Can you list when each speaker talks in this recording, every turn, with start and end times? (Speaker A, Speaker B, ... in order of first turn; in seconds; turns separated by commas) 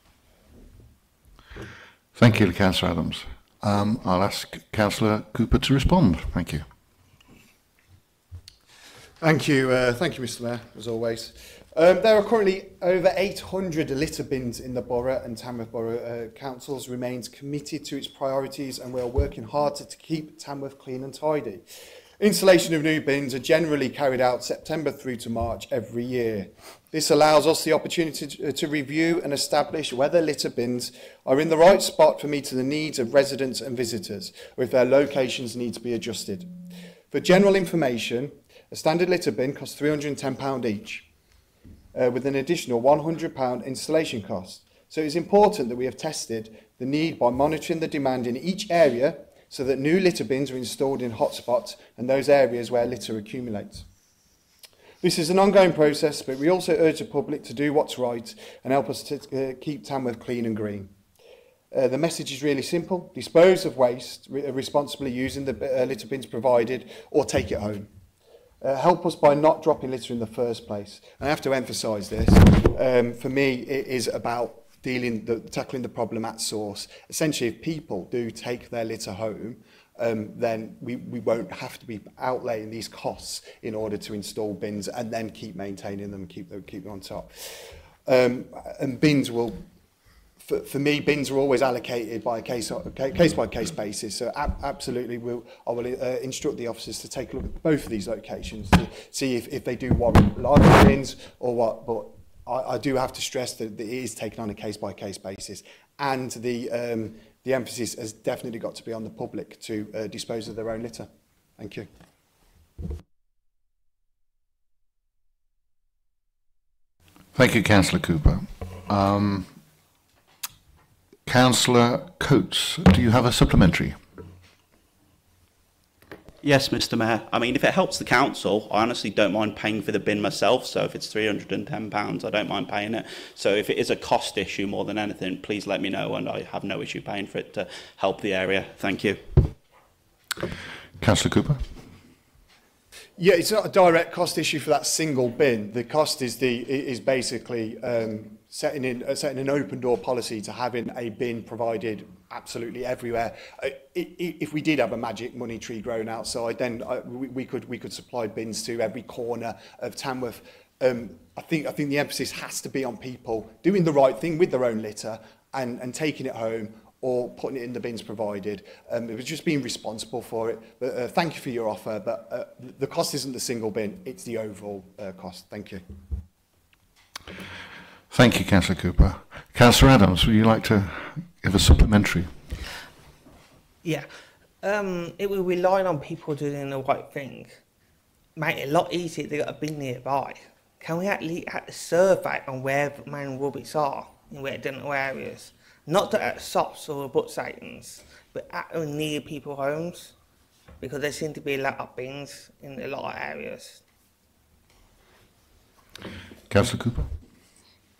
Speaker A: 2.1-6.6, Speaker B: 9.2-21.6, Speaker B: 22.2-36.5, Speaker B: 37.1-41.1, Speaker B: 41.9-53.9, Speaker B: 55.0-60.9, Speaker B: 61.7-67.9, Speaker B: 68.6-89.6, Speaker B: 90.4-111.9, Speaker A: 117.3-119.5, Speaker A: 121.2-124.0, Speaker C: 126.4-139.4, Speaker A: 141.0-141.6, Speaker B: 143.2-175.8, Speaker A: 178.1-182.3, Speaker D: 184.6-187.6, Speaker D: 188.3-200.1, Speaker D: 200.8-203.8, Speaker A: 206.5-207.1